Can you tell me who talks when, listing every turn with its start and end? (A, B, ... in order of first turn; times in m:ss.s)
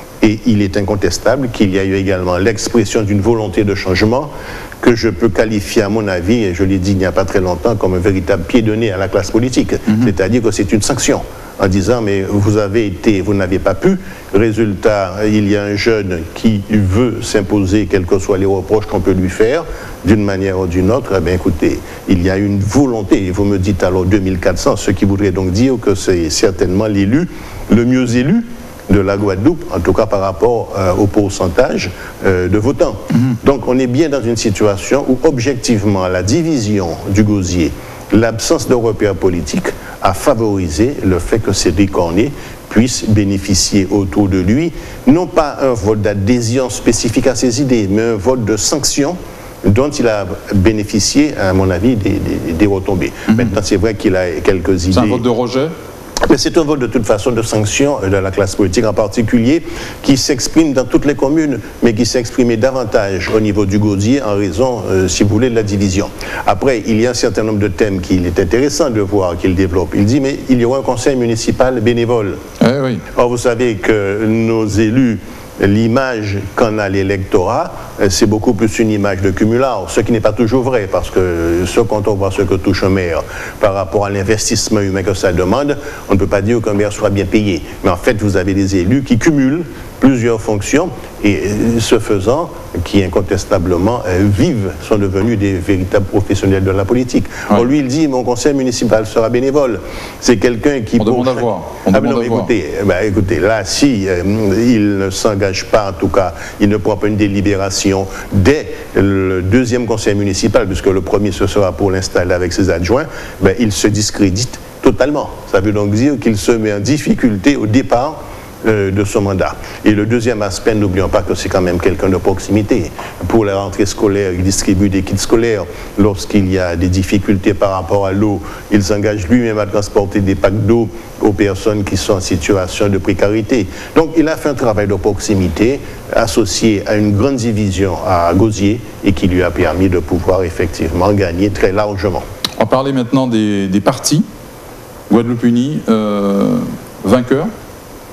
0:00.2-0:55.2 A
0:54.9-0:55.7 B
0:56.2-1:12.4 A
1:12.6-1:13.0 B
1:13.1-2:22.2 A
1:41.0-1:42.5 B
2:22.6-2:24.3 B
2:25.1-2:27.5 B